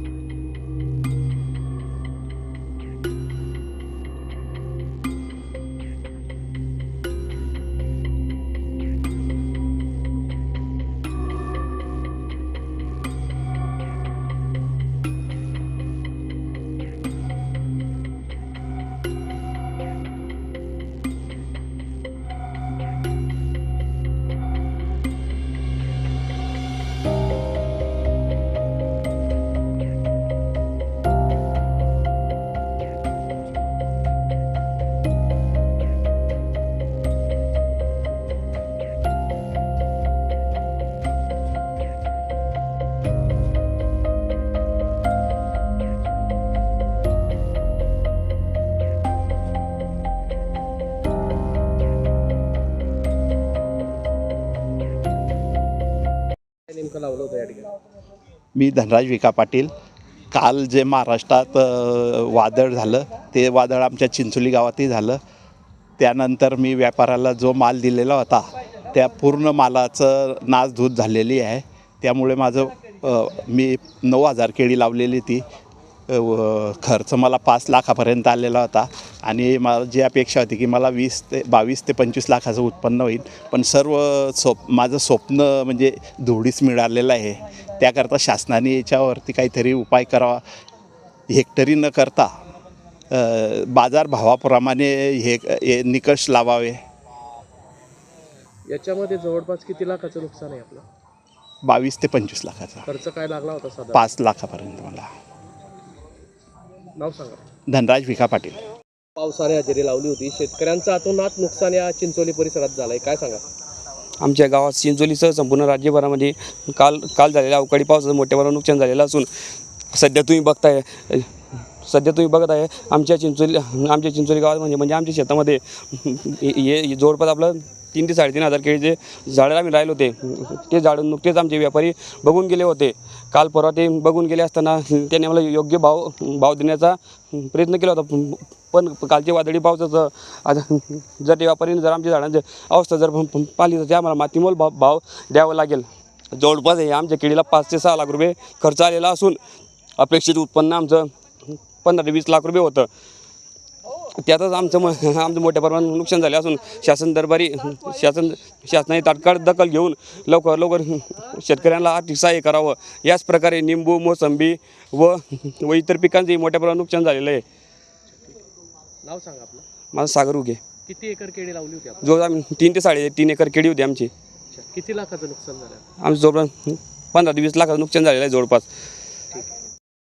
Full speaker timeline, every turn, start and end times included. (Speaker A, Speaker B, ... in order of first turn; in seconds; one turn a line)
Speaker A: 56.7-57.7
Speaker B: 58.6-59.7
Speaker B: 60.3-65.2
Speaker B: 66.0-75.4
Speaker B: 76.1-90.4
Speaker B: 91.3-92.3
Speaker B: 93.1-96.8
Speaker A: 98.7-100.8
Speaker B: 101.6-102.8
Speaker A: 102.9-104.0
Speaker B: 103.9-105.1
Speaker A: 107.0-107.4
Speaker B: 107.7-108.6
Speaker A: 109.2-113.4
Speaker C: 114.2-119.3
Speaker C: 119.9-121.3
Speaker C: 121.8-149.4
Speaker C: 150.0-151.1
Speaker C: 151.8-152.9
Speaker C: 154.2-167.4
Speaker A: 169.0-169.7
Speaker C: 169.9-170.6
Speaker A: 170.9-172.2
Speaker C: 172.0-174.1
Speaker A: 174.5-175.8
Speaker C: 176.0-178.7